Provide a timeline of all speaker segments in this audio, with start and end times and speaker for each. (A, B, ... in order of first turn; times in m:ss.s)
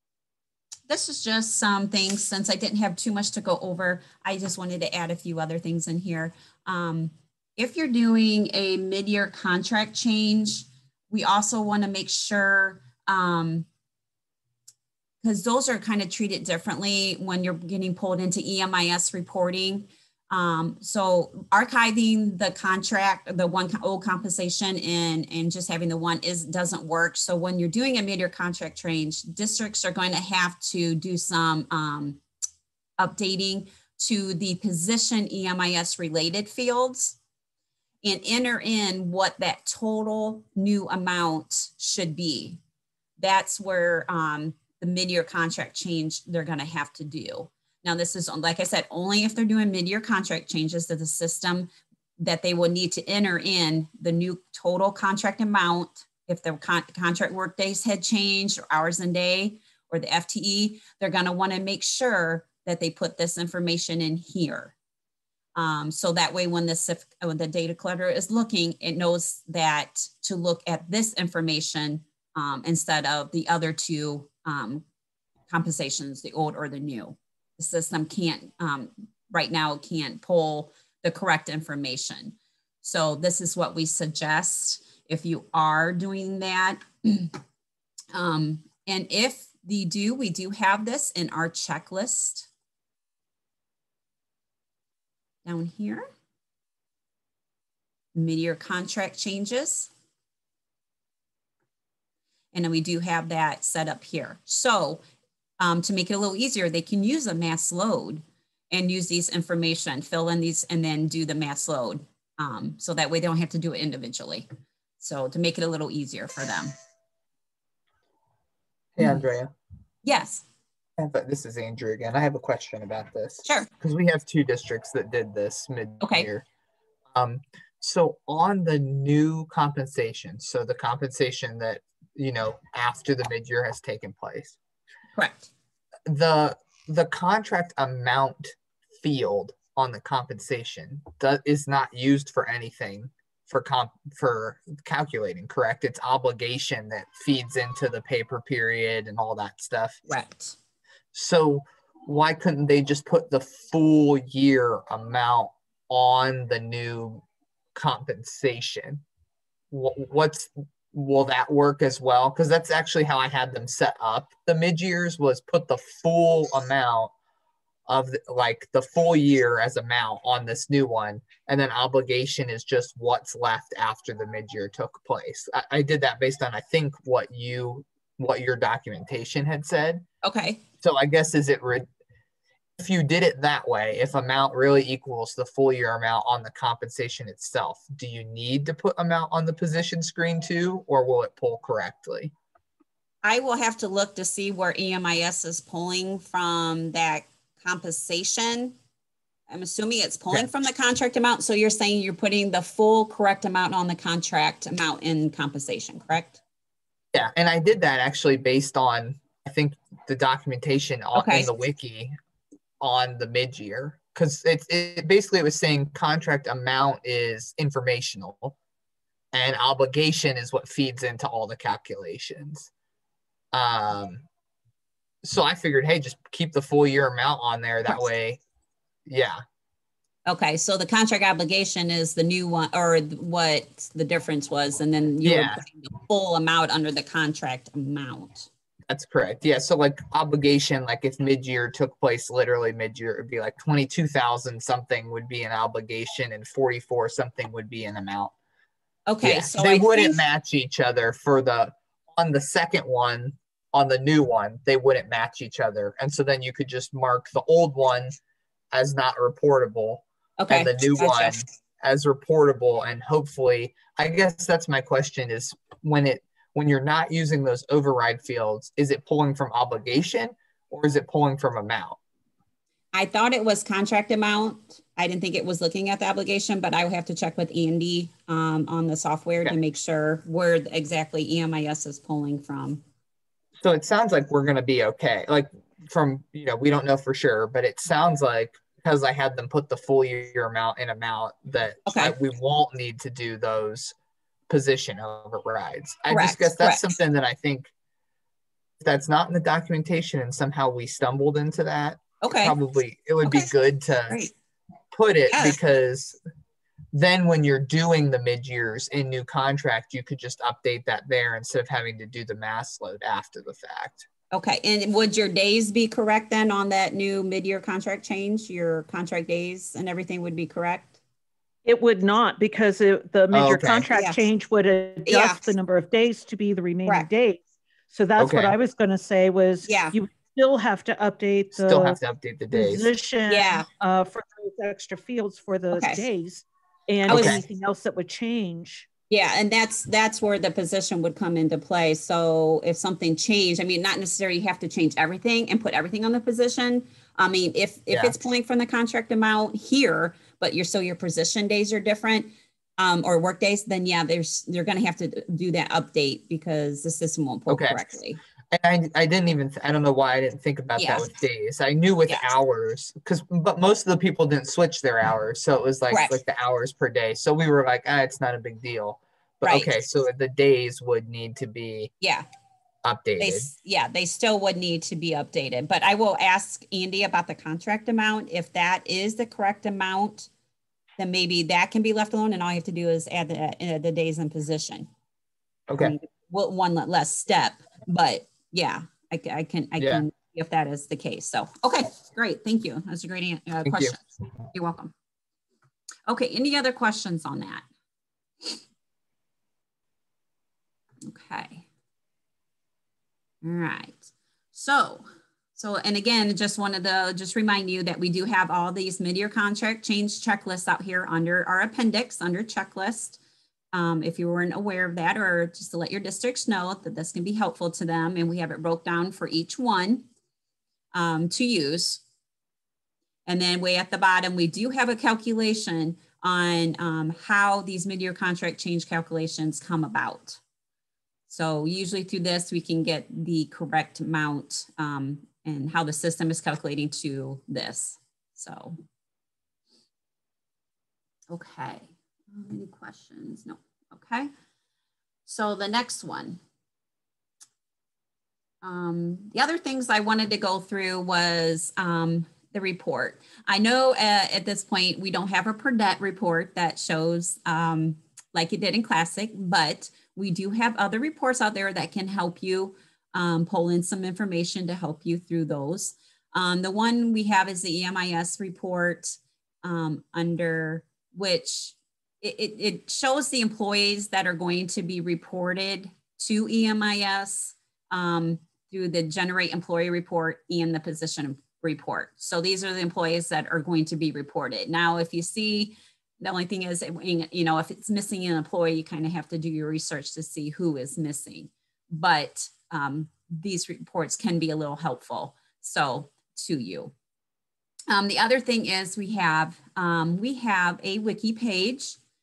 0:00.9-0:13.7 A
0:15.2-0:32.2 A
0:33.0-0:37.2 A
0:38.0-0:42.6 A
0:43.2-1:04.7 A
1:05.6-1:14.8 A
1:15.5-1:27.3 A
1:28.1-1:32.5 A
1:35.4-1:36.1 A
1:38.1-1:39.9 A
1:42.5-1:45.0 A
1:45.6-1:54.5 A
1:55.0-1:56.7 A
1:59.0-1:59.5 B
2:00.0-2:00.4 A
2:01.0-2:06.4 B
2:06.0-2:06.3 A
2:07.1-2:14.6 B
2:15.1-2:15.5 A
2:16.0-2:30.0 B
2:30.1-2:30.6 A
2:31.1-2:37.2 B
2:37.7-2:39.0 B
2:39.7-2:47.1 B
2:47.9-3:00.0 B
3:00.2-3:00.6 A
3:00.8-3:01.9 B
3:02.8-3:12.3 B
3:13.2-3:18.8 A
3:19.5-3:26.4 A
3:27.1-3:32.1 B
3:31.1-3:31.5 A
3:32.8-3:38.6 B
3:39.3-3:42.7 B
3:43.5-3:44.2 B
3:45.2-3:48.4 B
3:49.1-3:49.4 B
3:50.2-3:58.5 A
3:55.2-3:55.6 B
3:58.9-4:08.3 B
4:09.1-4:10.2 A
4:09.2-4:18.2 B
4:18.7-4:32.0 B
4:20.4-4:21.4 A
4:32.9-4:42.8 A
4:43.6-4:53.9 B
4:51.8-4:52.1 A
4:54.5-4:57.7 B
4:56.1-4:56.9 A
4:58.8-5:04.2 B
5:02.2-5:02.6 A
5:03.2-5:03.5 A
5:04.9-5:06.2 B
5:05.3-5:05.6 A
5:06.9-5:14.0 B
5:14.3-5:21.0 A
5:21.6-5:32.0 C
5:23.3-5:23.9 B
5:23.9-5:24.3 A
5:25.0-5:25.5 A
5:28.2-5:28.5 B
5:29.6-5:30.0 A
5:31.5-5:32.9 B
5:32.5-5:38.9 C
5:33.3-5:33.6 A
5:35.7-5:36.0 A
5:37.1-5:37.4 A
5:37.1-5:37.4 B
5:39.1-5:58.2 A
5:57.5-5:57.8 B
5:58.5-6:11.9 B
6:00.8-6:01.1 A
6:05.9-6:06.2 A
6:09.4-6:09.7 A
6:12.0-6:12.2 A
6:12.8-6:13.5 B
6:13.2-6:20.3 A
6:21.0-6:24.9 A
6:25.7-6:25.9 B
6:25.8-6:34.9 A
6:29.8-6:30.0 B
6:33.6-6:34.0 B
6:36.1-6:37.6 A
6:41.0-6:41.6 A
6:43.4-6:53.2 A
6:53.7-7:00.0 A
7:00.9-7:02.0 A
7:03.2-7:10.4 A
7:11.3-7:18.8 A
7:21.3-7:24.3 A
7:25.2-7:26.4 A
7:28.6-8:16.9 A
8:17.9-8:22.0 A